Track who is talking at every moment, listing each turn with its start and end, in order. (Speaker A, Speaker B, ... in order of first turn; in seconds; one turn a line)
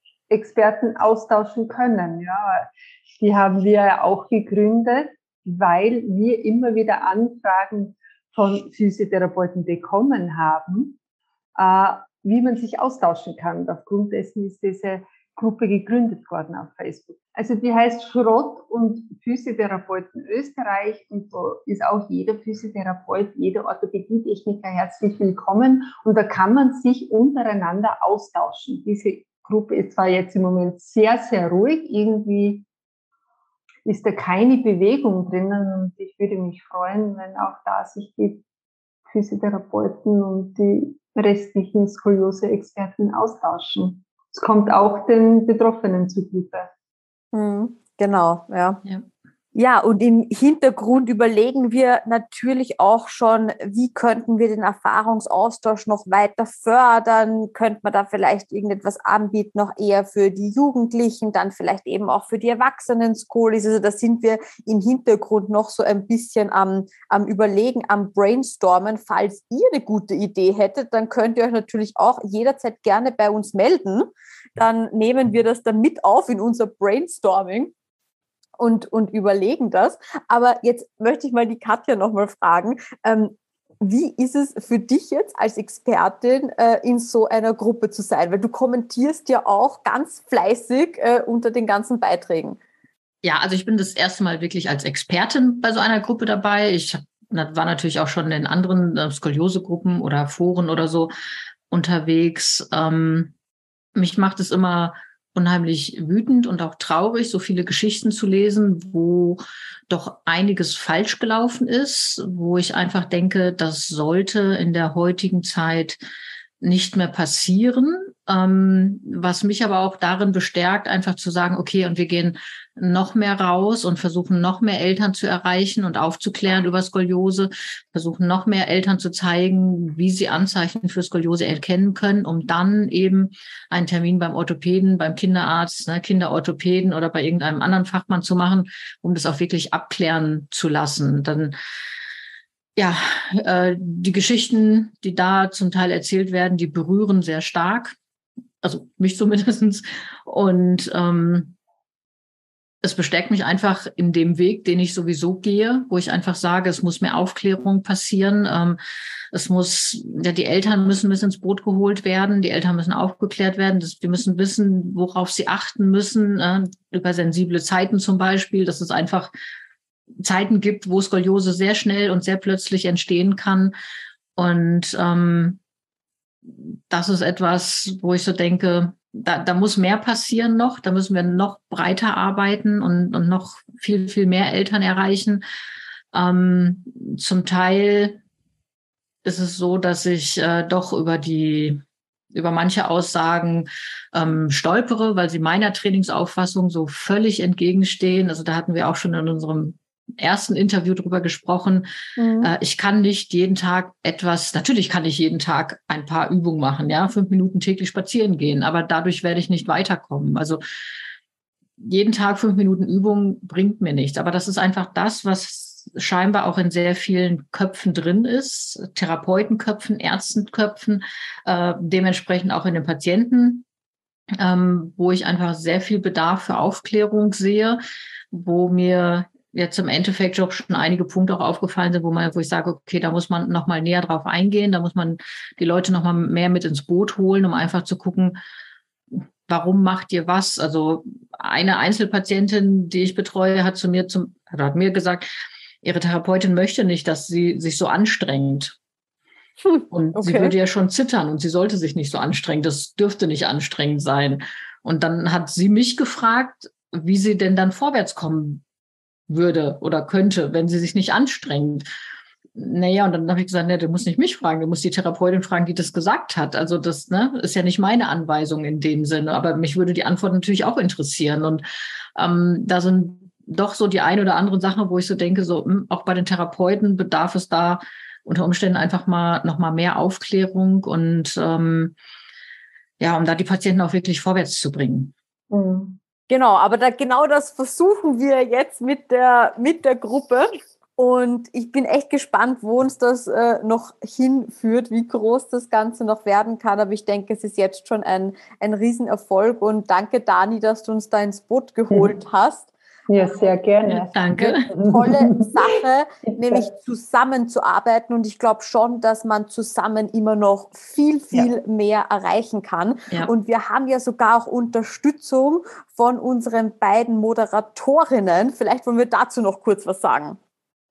Speaker A: 0.3-11.0
Speaker A: 11.6-32.6
Speaker A: 33.9-38.4
Speaker A: 39.1-46.7
Speaker B: 47.3-48.8
Speaker B: 49.5-77.7
Speaker B: 78.6-92.6
Speaker C: 93.2-101.1
Speaker C: 101.7-103.3
Speaker C: 104.0-116.0
Speaker C: 116.6-141.6
Speaker C: 142.8-148.0
Speaker C: 148.6-151.6
Speaker C: 152.8-158.8
Speaker C: 159.3-169.3
Speaker C: 170.2-173.8
Speaker C: 174.4-175.6
Speaker C: 176.5-185.4
Speaker C: 186.1-188.2
Speaker C: 189.2-191.8
Speaker C: 192.3-201.9
Speaker A: 202.2-202.5
Speaker C: 202.4-210.6
Speaker C: 211.8-223.7
Speaker C: 224.4-227.8
Speaker C: 228.3-238.4
Speaker C: 239.1-245.3
Speaker C: 245.8-248.8
Speaker B: 249.6-250.5
Speaker C: 249.9-258.6
Speaker C: 259.3-261.9
Speaker C: 262.6-271.6
Speaker C: 272.2-282.0
Speaker C: 283.0-285.1
Speaker A: 285.5-286.0
Speaker B: 286.3-302.7
Speaker A: 301.9-302.2
Speaker A: 303.1-306.7
Speaker C: 303.9-304.6
Speaker B: 304.8-320.4